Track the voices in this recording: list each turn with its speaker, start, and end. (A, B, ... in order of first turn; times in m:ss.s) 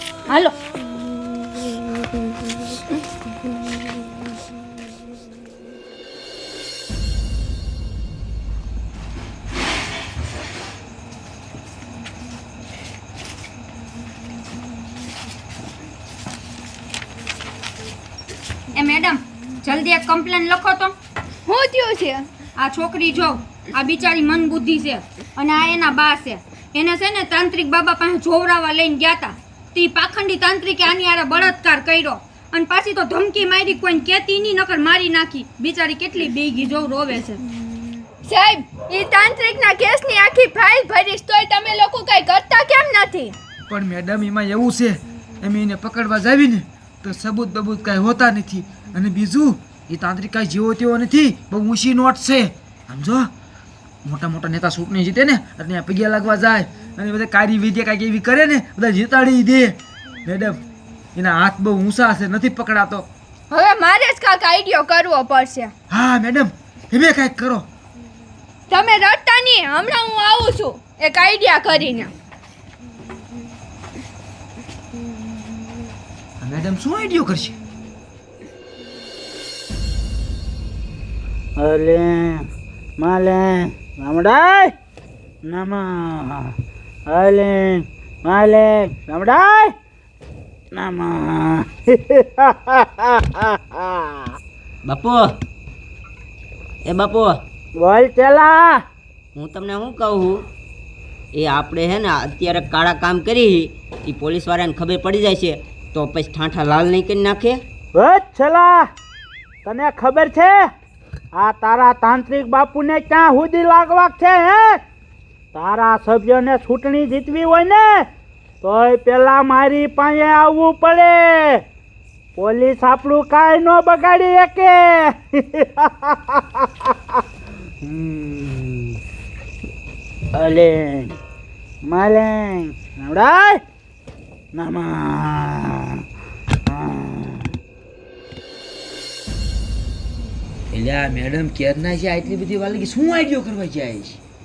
0:00.3-0:00.5 A
0:18.8-0:20.9 A
0:21.5-0:22.3 B
0:22.6-0:37.4 A
0:38.2-0:43.3 B
0:43.7-0:53.3 C
0:54.0-1:00.6 C
1:01.2-1:03.1 C
1:03.5-1:05.7 B
1:05.9-1:07.7 C
1:08.7-1:12.1 B
1:16.4-1:17.6 C
1:21.6-1:22.4 D
1:23.0-1:24.7 D
1:25.5-1:26.5 D
1:27.1-1:29.7 D
1:30.8-1:34.3 D
1:34.9-1:35.2 E
1:36.8-1:37.4 E
1:37.8-1:38.8 D
1:39.4-1:40.4 E
1:41.4-1:47.6 E
1:47.9-1:48.9 D
1:49.6-1:50.7 D
1:51.4-1:54.8 D
1:55.5-1:58.1 D
1:58.6-2:01.6 D
2:02.4-2:07.0 D
2:07.8-2:09.0 D
2:10.3-2:11.1 D
2:11.8-2:13.6 D
2:14.5-2:16.0 D
2:16.7-2:17.5 D
2:20.7-2:24.2 C